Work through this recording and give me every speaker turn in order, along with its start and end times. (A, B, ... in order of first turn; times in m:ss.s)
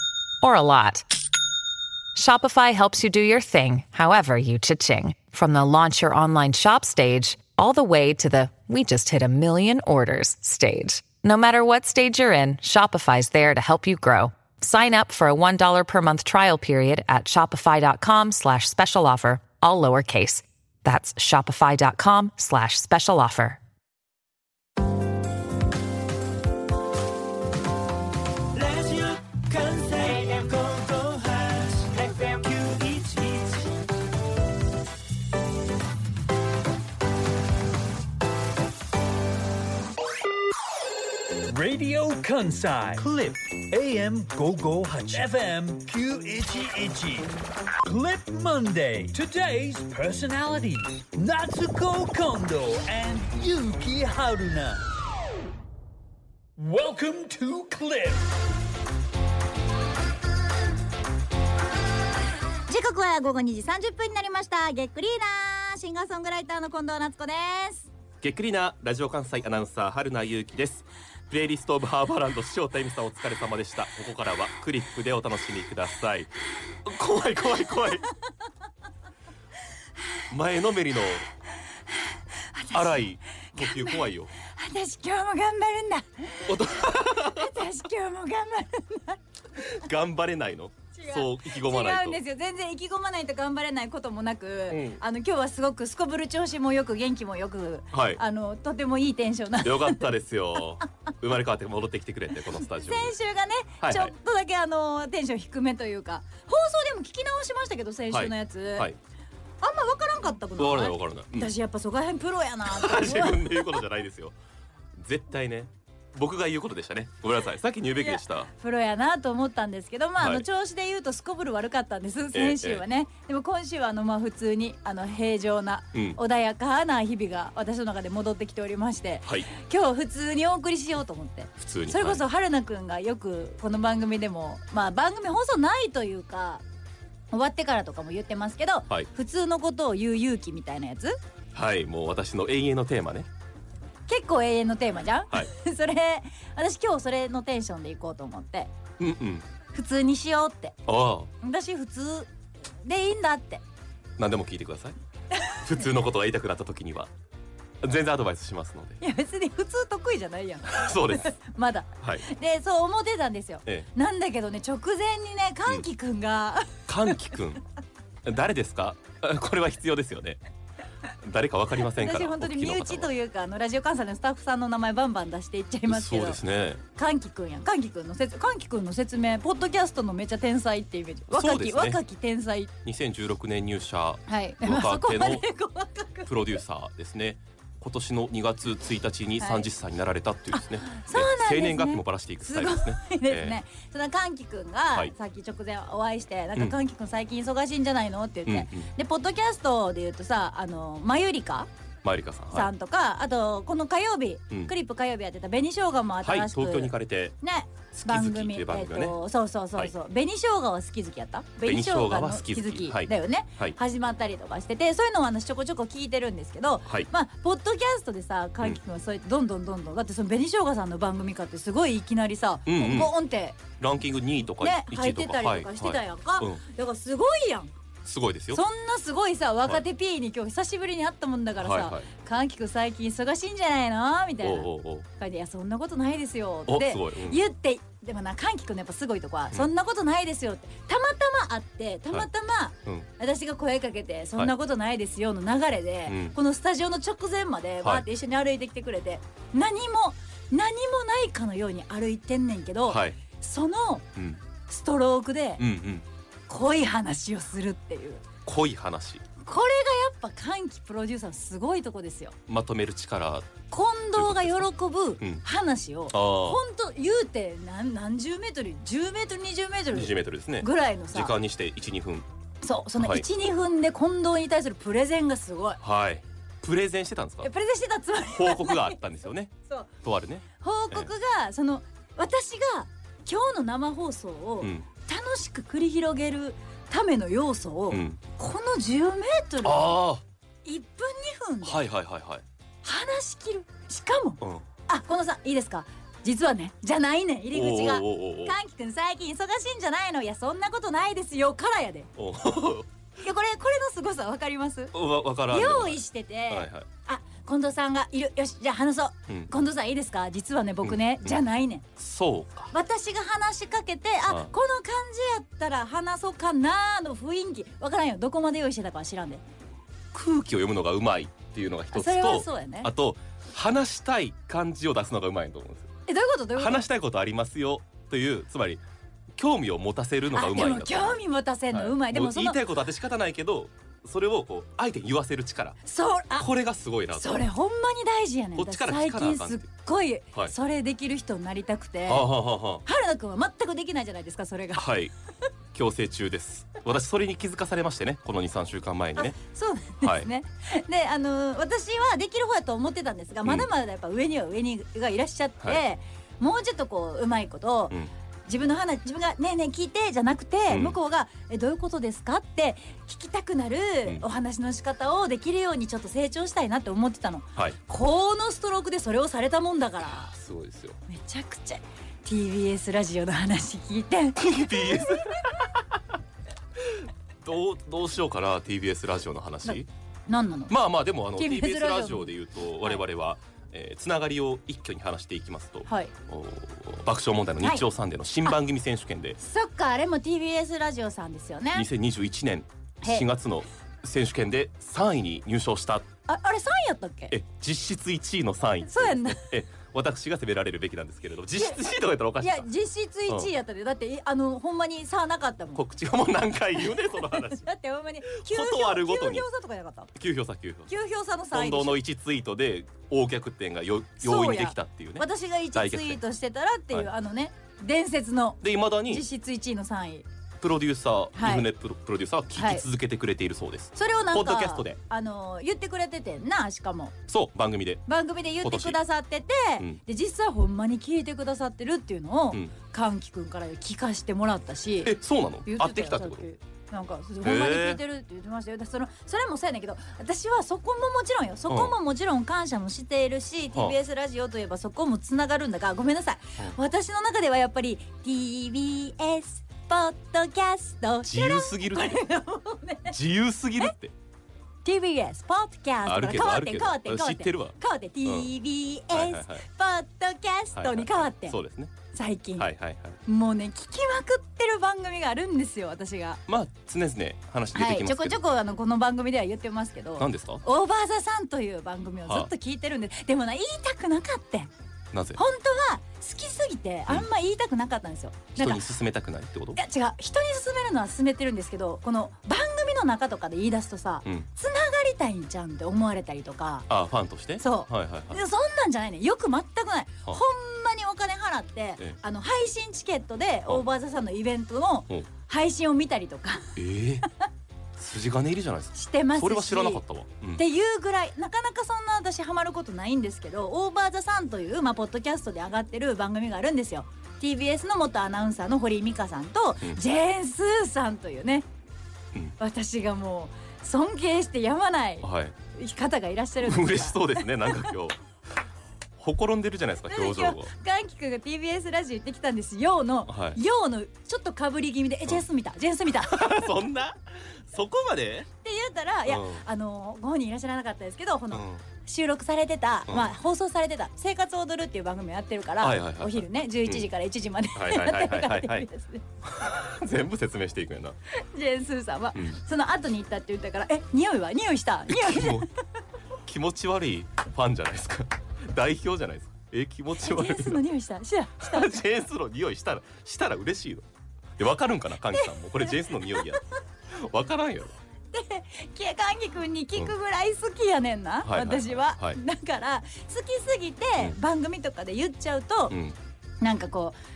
0:00.4-0:01.1 A
0:02.1-0:23.6 A
0:28.5-0:33.8 B
0:41.5-0:47.3 C
0:47.8-0:54.8 C
0:56.6-0:58.3 C
1:02.7-1:07.9 D
1:08.2-1:16.3 E
1:16.8-1:18.1 E
1:20.3-1:21.3 E
1:22.5-1:29.2 D
1:22.7-1:24.3 E
1:26.5-1:27.7 E
1:29.6-1:32.2 E
1:30.9-1:40.1 D
1:34.7-1:35.0 E
1:37.9-1:38.2 E
1:39.6-1:43.1 E
1:42.7-1:48.9 D
1:43.8-1:44.1 E
1:48.1-1:49.0 E
1:49.6-1:53.8 D
1:50.6-1:51.5 E
1:52.6-1:54.3 E
1:54.9-1:58.5 E
1:58.0-2:16.6 D
2:00.2-2:00.4 E
2:02.3-2:02.8 E
2:05.9-2:06.2 E
2:11.6-2:12.2 E
2:17.3-2:21.2 D
2:21.5-2:23.3 E
2:24.1-2:28.7 D
2:29.0-2:29.4 E
2:29.7-2:30.8 D
2:30.9-2:31.3 E
2:31.4-2:32.3 D
2:32.8-2:33.6 D
2:34.2-2:35.0 E
2:35.6-2:37.1 E
2:37.8-2:39.0 E
2:39.0-2:47.1 D
2:40.7-2:41.3 E
2:42.0-2:42.2 E
2:46.9-2:47.6 E
2:48.2-2:50.4 E
2:51.2-2:53.1 E
2:51.9-3:02.7 D
2:55.9-2:56.8 E
3:01.3-3:02.0 E
3:02.8-3:05.5 E
3:04.3-3:06.6 D
3:06.2-3:13.6 E
3:09.4-3:09.7 D
3:10.5-3:21.7 D
3:18.5-3:18.9 E
3:22.0-3:22.7 E
3:22.5-3:43.6 D
3:26.2-3:27.4 E
3:27.9-3:29.2 E
3:31.6-3:33.8 E
3:42.6-3:43.1 E
3:43.8-3:46.6 E
3:44.6-3:47.7 D
3:48.0-3:48.6 E
3:48.5-4:14.0 D
3:51.6-3:52.1 E
3:54.4-3:55.1 E
3:56.7-3:57.4 E
4:06.1-4:06.4 E
4:07.8-4:08.0 E
4:12.9-4:13.2 E
4:14.1-4:14.4 E
4:14.7-4:15.6 D
4:15.6-4:16.0 E
4:16.5-4:18.2 D
4:18.4-4:19.2 E
4:19.4-4:22.4 D
4:22.5-4:23.5 E
4:23.7-4:31.3 D
4:24.2-4:24.7 E
4:26.1-4:26.6 E
4:29.9-4:32.3 E
4:32.6-4:35.8 D
4:33.0-4:33.2 E
4:35.8-4:37.5 E
4:37.4-4:39.0 D
4:38.2-4:41.1 E
4:40.6-4:50.0 D
4:44.6-4:44.8 E
4:47.9-4:48.2 E
4:49.6-4:50.2 E
4:50.6-4:51.8 D
4:51.6-4:52.4 E
4:52.8-5:02.1 D
4:54.4-4:54.6 E
4:57.5-4:58.6 E
5:02.2-5:02.9 E
5:03.2-5:05.0 D
5:04.9-5:06.9 E
5:05.5-5:11.8 D
5:10.8-5:11.4 E
5:12.0-5:12.7 E
5:12.7-5:19.4 D
5:14.3-5:14.5 E
5:20.1-5:25.9 E
5:21.9-5:22.9 D
5:26.1-5:26.8 D
5:26.6-5:28.8 E
5:29.4-5:35.8 E
5:30.3-5:32.6 D
5:35.8-5:36.5 D
5:36.4-5:37.4 E
5:37.1-5:42.3 D
5:38.5-5:39.6 E
5:42.1-5:42.8 E
5:42.8-5:44.9 D
5:44.7-5:45.1 E
5:45.7-5:49.4 E
5:49.1-6:10.3 D
5:50.0-5:50.3 E
6:00.7-6:01.0 E
6:10.0-6:11.0 E
6:11.1-6:15.5 D
6:14.4-6:16.0 E
6:16.8-6:19.9 E
6:19.7-6:20.8 D
6:20.7-6:29.4 E
6:21.3-6:22.3 D
6:25.9-6:26.1 D
6:29.4-6:31.9 D
6:31.7-6:36.1 E
6:36.3-6:37.3 D
6:37.3-6:42.7 E
6:38.9-6:39.5 D
6:42.4-6:45.8 D
6:45.7-6:47.7 E
6:47.0-6:50.1 D
6:48.3-6:49.4 E
6:50.1-6:50.9 E
6:50.9-6:52.0 D
6:51.5-6:56.2 E
6:54.2-7:00.2 D
6:58.6-6:59.2 E
7:00.6-7:05.0 E
7:01.3-7:01.7 D
7:02.6-7:02.8 D
7:04.0-7:07.2 D
7:07.3-7:08.0 E
7:08.1-7:33.2 D
7:08.6-7:09.0 E
7:15.0-7:16.4 E
7:17.4-7:18.0 E
7:21.7-7:22.0 E
7:31.2-7:32.2 E
7:33.1-7:34.1 E
7:34.8-7:41.6 D
7:36.0-7:38.5 E
7:39.1-7:39.6 E
7:40.8-7:41.9 E
7:42.1-7:42.7 D
7:42.6-7:43.2 E
7:43.2-7:46.4 D
7:46.5-7:48.4 E
7:47.7-7:54.7 D
7:50.2-7:50.6 E
7:52.2-7:52.5 E
7:55.1-7:55.4 E
7:55.4-7:58.8 D
7:58.6-7:59.8 E
7:59.8-8:06.9 D
8:06.9-8:08.4 E
8:07.6-8:16.7 D
8:16.8-8:17.3 E
8:18.0-8:20.6 E
8:18.9-8:20.0 D
8:20.6-8:31.7 D
8:32.6-8:37.9 D
8:35.2-8:35.6 E
8:36.6-8:38.2 E
8:39.2-8:40.7 E
8:40.1-8:46.7 D
8:43.3-8:43.6 E
8:46.2-8:48.5 E
8:48.6-8:59.2 D
8:49.3-8:49.6 E
8:51.5-8:51.8 E
8:53.1-8:53.3 E
8:55.8-8:57.1 E
8:57.7-8:58.9 E
8:59.4-9:01.2 E
9:01.3-9:05.7 D
9:02.3-9:02.6 E
9:05.1-9:05.7 E
9:06.4-9:10.8 E
9:10.2-9:12.0 D
9:11.6-9:14.0 E
9:14.6-9:18.0 E
9:16.2-9:16.5 D
9:18.3-9:26.0 D
9:21.4-9:22.4 E
9:25.9-9:26.2 E
9:26.6-9:27.2 D